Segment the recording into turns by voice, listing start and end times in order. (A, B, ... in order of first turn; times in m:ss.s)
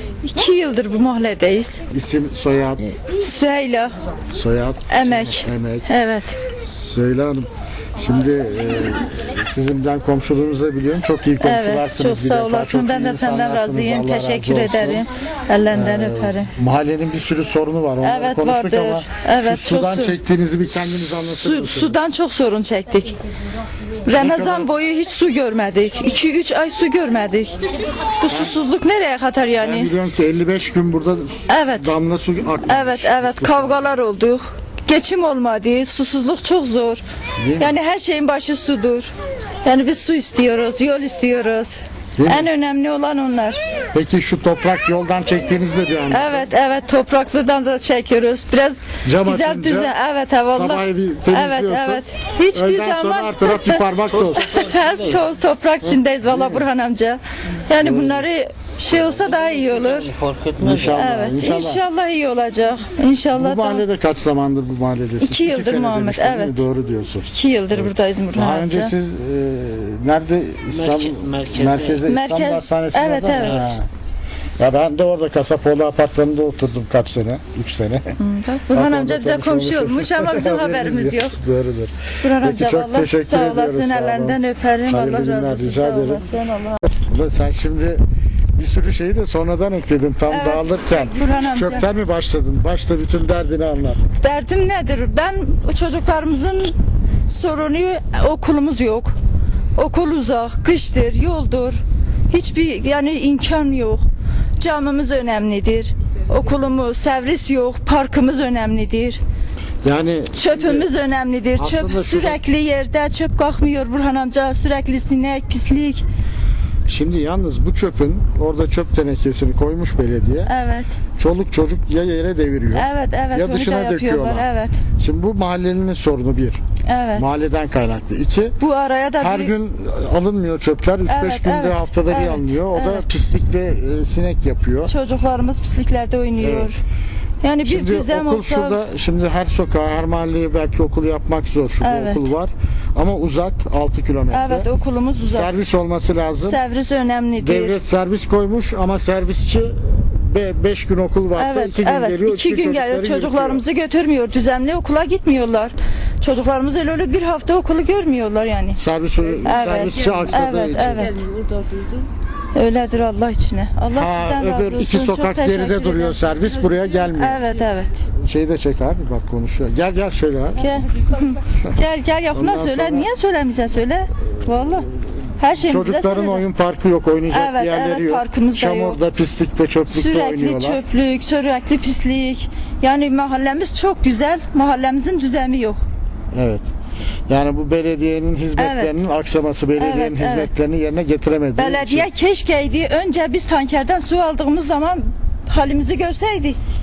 0:00.2-0:01.8 A
0:01.9-0:03.0 B
0:03.1-0:03.9 A
0:04.3-0:05.9 B
0:04.9-0:06.4 A
0:06.5-0:15.0 B
0:11.4-0:16.5 A
0:15.7-0:22.0 B
0:18.0-0:20.2 A
0:21.2-0:23.2 A
0:24.0-0:27.6 A
0:24.1-0:24.7 B
0:28.2-0:29.9 A
0:28.2-0:28.6 B
0:29.6-0:33.9 B
0:31.5-0:32.0 A
0:32.6-0:37.0 A
0:37.4-0:37.7 B
0:37.6-0:39.1 A
0:39.6-0:43.6 A
0:42.2-0:42.5 B
0:43.9-0:46.5 B
0:46.1-1:00.1 A
0:49.0-0:49.9 B
0:50.5-0:54.6 B
0:54.1-0:55.2 C
0:55.8-0:56.6 B
0:57.8-0:58.2 B
0:58.9-1:01.1 C
1:00.6-1:01.8 B
1:00.9-1:03.8 A
1:03.3-1:13.8 B
1:05.2-1:06.6 A
1:07.3-1:08.9 A
1:10.7-1:12.0 C
1:12.0-1:13.8 A
1:13.3-1:13.8 C
1:14.6-1:18.2 B
1:18.2-1:21.4 A
1:18.7-1:26.3 B
1:22.2-1:26.8 A
1:26.9-1:28.0 B
1:28.6-1:34.1 B
1:30.3-1:31.9 A
1:34.2-1:36.8 A
1:37.3-1:39.1 A
1:39.8-1:44.0 A
1:44.6-1:49.2 A
1:49.8-1:50.9 B
1:50.3-1:56.0 A
1:51.5-1:52.4 B
1:56.8-2:00.5 B
2:00.4-2:01.0 A
2:01.2-2:06.6 B
2:02.7-2:04.8 A
2:06.8-2:07.3 A
2:07.1-2:08.6 B
2:08.6-2:09.5 A
2:09.2-2:14.9 B
2:11.0-2:13.1 A
2:14.8-2:16.8 A
2:16.4-2:16.7 B
2:17.4-2:18.8 A
2:17.6-2:24.7 B
2:21.8-2:22.3 A
2:24.3-2:25.5 A
2:25.2-2:26.6 B
2:26.4-2:27.8 A
2:27.4-2:33.6 B
2:31.4-2:38.8 A
2:38.8-2:41.2 B
2:39.4-2:41.2 A
2:41.1-2:42.0 C
2:42.5-2:46.4 A
2:43.9-2:47.5 B
2:47.0-2:48.0 A
2:48.1-2:50.8 B
2:50.6-2:56.4 A
2:52.3-2:53.1 B
2:55.5-3:00.8 B
2:57.3-2:59.0 A
2:59.9-3:05.8 A
3:06.3-3:06.6 B
3:07.3-3:12.1 B
3:08.6-3:08.9 A
3:09.8-3:10.5 A
3:11.6-3:16.6 A